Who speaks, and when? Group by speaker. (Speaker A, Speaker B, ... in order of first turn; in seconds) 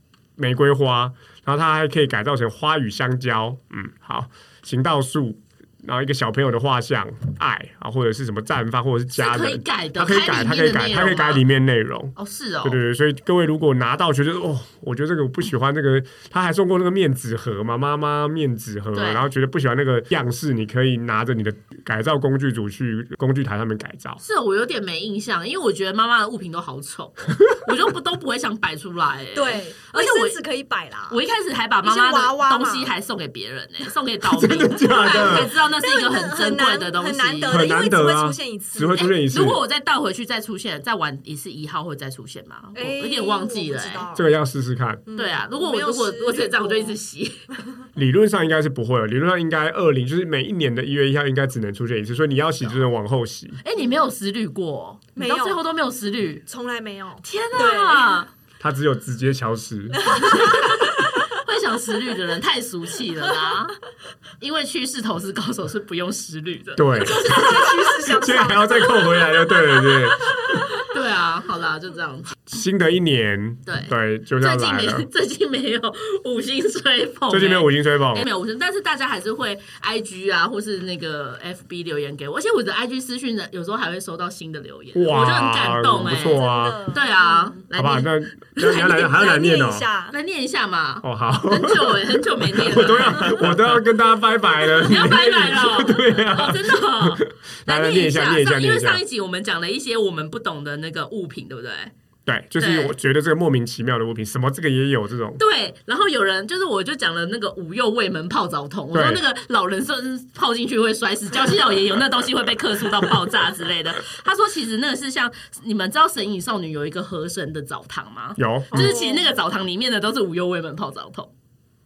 Speaker A: 0.4-24.2, 34.3-35.5, 37.5-39.6, 44.1-45.0, 47.9-53.6, 58.6-60.4, 66.8-70.6, 72.5-75.1, 77.3-78.3, 84.9-86.8, 87.7-89.9, 91.0-99.0, 102.2-105.4, 108.9-109.2, 118.4-118.9
Speaker B: 9.1-11.4, 12.2-12.8, 18.9-19.3, 24.2-30.4, 31.1-37.6, 38.9-44.1, 45.1-47.5, 53.6-56.4, 57.2-58.3, 60.1-63.8, 64.4-68.1, 70.8-72.4, 73.7-88.1, 90.1-93.6, 94.8-101.9, 102.6-103.0, 105.4-121.3
Speaker C: 29.3-31.2, 31.8-32.9, 34.9-39.0, 42.7-44.2, 45.0-47.0, 55.1-55.6, 56.5-58.2, 60.1-60.5, 67.0-70.0, 86.0-87.5, 88.6-90.1, 118.7-119.3